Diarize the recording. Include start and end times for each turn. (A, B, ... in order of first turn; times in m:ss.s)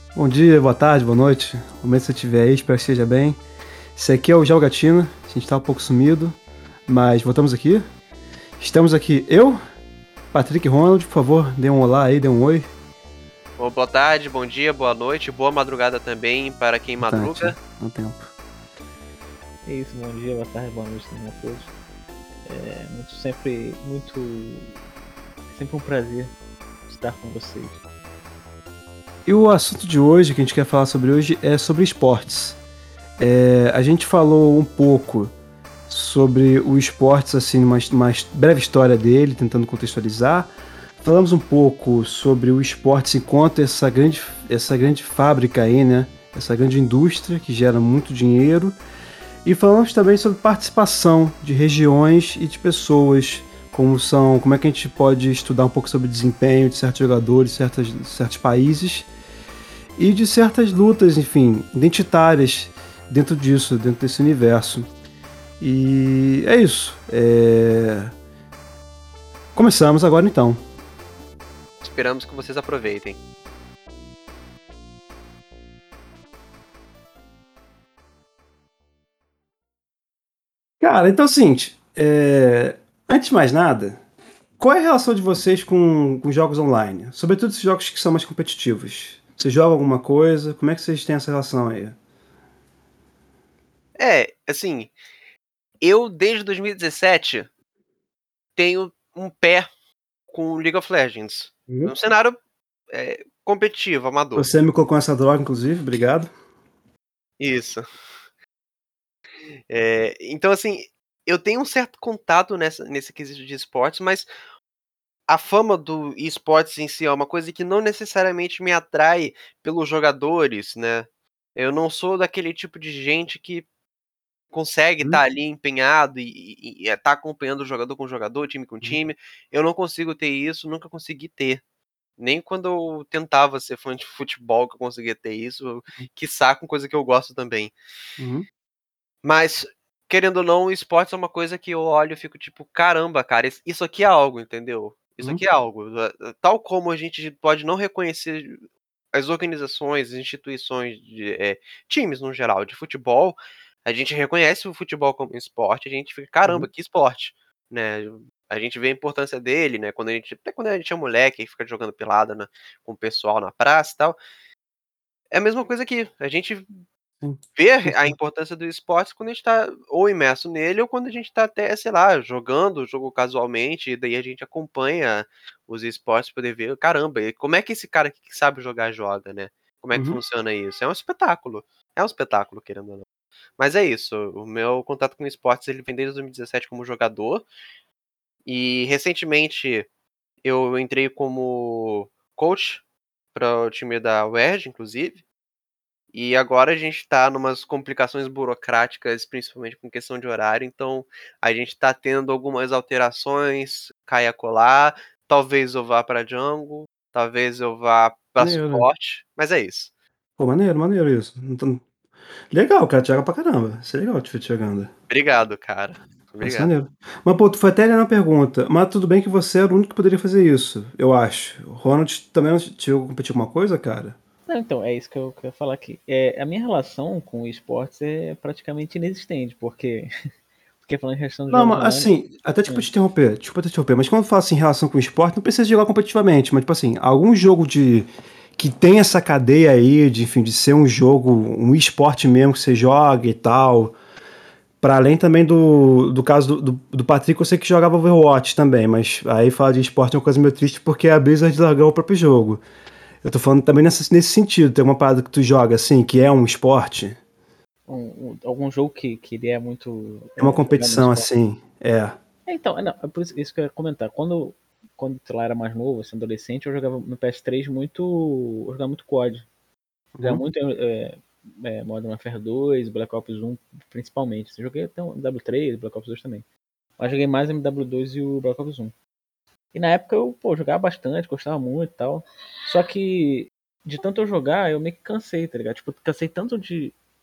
0:00.2-0:03.4 A
0:04.0-0:07.8 A
0:08.6-0:09.6 A
0:10.3-0:12.7 A
0:13.6-0:17.6 B
0:17.0-0:18.3 A
0:19.6-0:21.7 C
0:22.5-0:24.8 C
0:25.5-0:26.4 C
0:26.9-0:27.8 C
0:29.3-0:32.6 A
0:33.2-0:35.3 A
0:35.9-0:48.8 A
0:49.4-0:59.1 A
1:00.0-1:04.9 A
1:05.6-1:08.1 A
1:09.6-1:10.6 A
1:11.8-1:13.2 B
1:20.8-1:24.0 A
1:24.6-1:32.0 A
1:34.0-1:34.9 B
1:35.8-1:37.5 B
1:38.6-1:39.7 B
1:40.3-1:42.4 B
1:41.7-1:41.9 A
1:42.9-1:44.5 B
1:44.4-1:46.3 A
1:47.4-1:47.8 B
1:49.7-1:54.3 B
1:55.3-2:03.6 B
2:04.5-2:11.6 B
2:12.2-2:17.7 B
2:18.2-2:18.5 A
2:19.2-2:28.6 B
2:29.1-2:44.2 B
2:45.3-2:46.7 B
2:47.2-2:48.2 A
2:47.6-3:03.1 B
2:59.9-3:00.2 A
3:03.6-3:07.5 B
3:08.5-3:09.9 B
3:10.4-3:12.8 B
3:13.3-3:15.2 B
3:16.1-3:29.9 B
3:28.4-3:28.9 A
3:30.4-3:31.8 A
3:32.5-3:34.9 A
3:35.1-3:36.7 B
3:36.4-3:44.2 A
3:44.5-3:50.1 C
3:50.8-3:52.1 C
3:51.5-4:04.0 A
4:04.8-4:12.6 A
4:13.2-4:17.2 A
4:17.9-4:21.3 C
4:20.4-4:22.2 A
4:22.5-4:29.5 C
4:30.2-4:30.4 A
4:30.2-4:36.4 C
4:37.0-4:39.0 C
4:39.7-4:47.0 C